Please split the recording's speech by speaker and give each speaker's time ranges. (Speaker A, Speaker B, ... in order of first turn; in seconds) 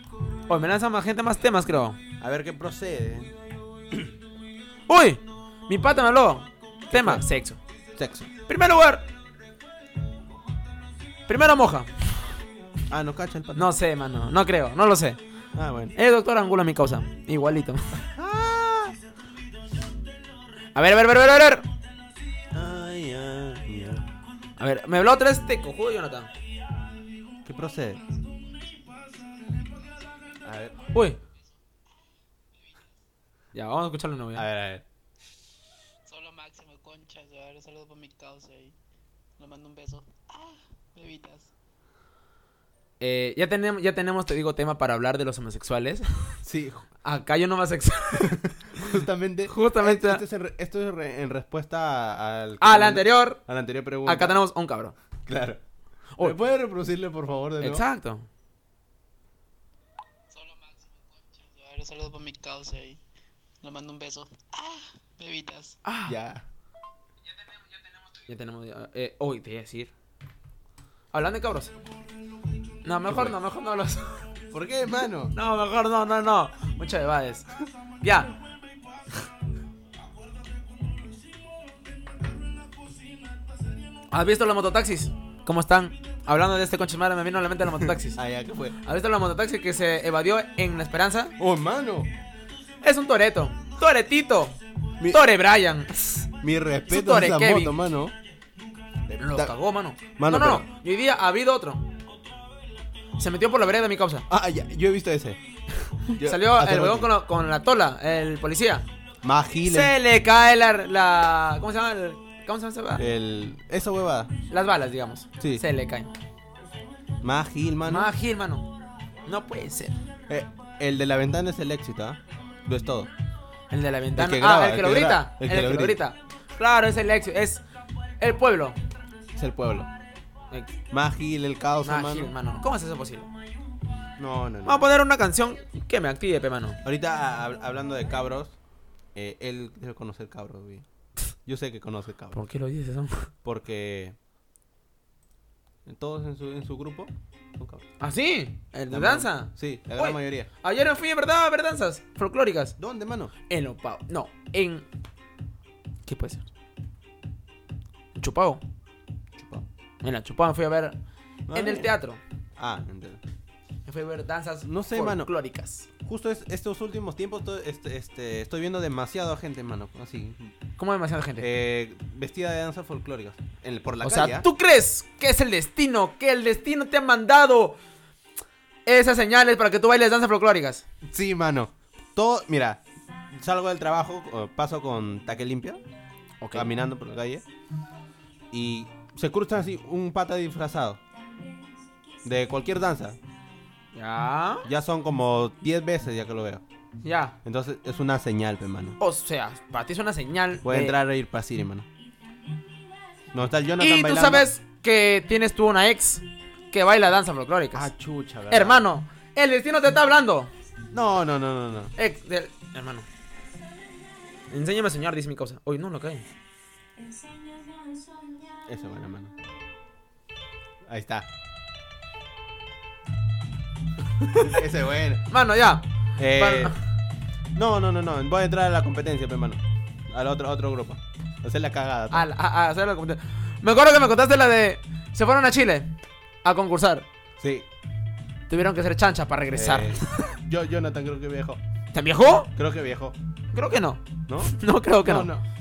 Speaker A: 0.5-2.0, 4.9-7.6, 8.5-9.1, 11.3-11.9, 13.6-15.2, 15.9-18.0, 20.7-21.6, 24.6-26.3, 30.9-31.2, 33.5-34.5, 43.0-46.3, 47.0-49.0, 49.5-50.2, 52.6-53.4, 54.1-54.9, 57.6-58.3, 65.8-66.1, 68.3-69.9, 71.1-71.7, 72.8-74.2, 75.3-77.5, 78.0-78.3, 84.1-88.2, 88.8-91.3, 92.8-96.3, 96.9-97.8, 99.2-101.9, 103.2-104.3, 106.2-108.8, 109.6-113.0, 114.5-116.1, 117.9-118.7, 119.3-120.0, 123.7-127.6, 128.2-128.8, 131.8-133.3, 134.6-136.8, 142.3-143.3, 148.0-152.8, 153.5-154.9, 156.1-156.5, 158.1-158.6, 160.0-161.0, 161.5-162.2, 163.9-165.9, 170.8-171.5, 174.0-177.8, 178.9-180.8, 186.4-186.7, 193.9-194.7, 197.0-197.3, 199.0-201.0, 203.8-207.9, 208.5-210.5, 212.0-213.1, 214.5-216.3, 225.3-226.8, 232.1-235.9, 236.4-237.1, 238.5-240.3, 241.9-242.5, 243.5-245.3
Speaker B: 2.2-3.3, 6.9-7.3, 7.9-8.3, 12.9-13.6, 15.5-15.9, 18.1-18.9, 22.5-24.1, 27.4-28.0, 30.4-30.8, 34.4-34.8, 46.4-46.9, 48.2-54.4, 55.3-55.6, 56.2-57.9, 66.0-66.5, 73.1-73.4, 74.5-75.3, 87.8-88.8, 91.4-92.1, 96.4-98.1, 99.1-99.5, 100.2-100.7, 104.3-105.4, 105.9-107.1, 109.2-109.9, 113.0-114.3, 117.2-118.1, 120.3-123.1, 124.2-126.0, 129.3-129.9, 130.9-132.3, 134.2-134.9, 136.8-138.6, 139.1-140.9, 141.4-142.4, 143.4-144.2, 145.9-147.8, 148.9-150.5, 152.8-153.3, 159.4-159.7, 161.5-161.9, 162.6-163.2, 164.6-165.3, 166.0-170.5, 171.4-174.4, 181.1-185.8, 186.5-187.4, 188.5-191.0, 192.2-193.2, 194.6-196.6, 197.4-199.0, 200.6-201.9, 203.3-204.5, 207.7-208.8, 210.9-211.9, 218.7-219.3, 220.9-221.3, 224.3-225.3, 226.2-226.7, 227.5-232.3, 237.4-237.7, 239.5-241.6, 242.6-243.2, 244.3-245.4
Speaker C: 32.5-32.9, 36.1-38.8, 39.4-41.5, 60.3-63.0, 63.6-65.8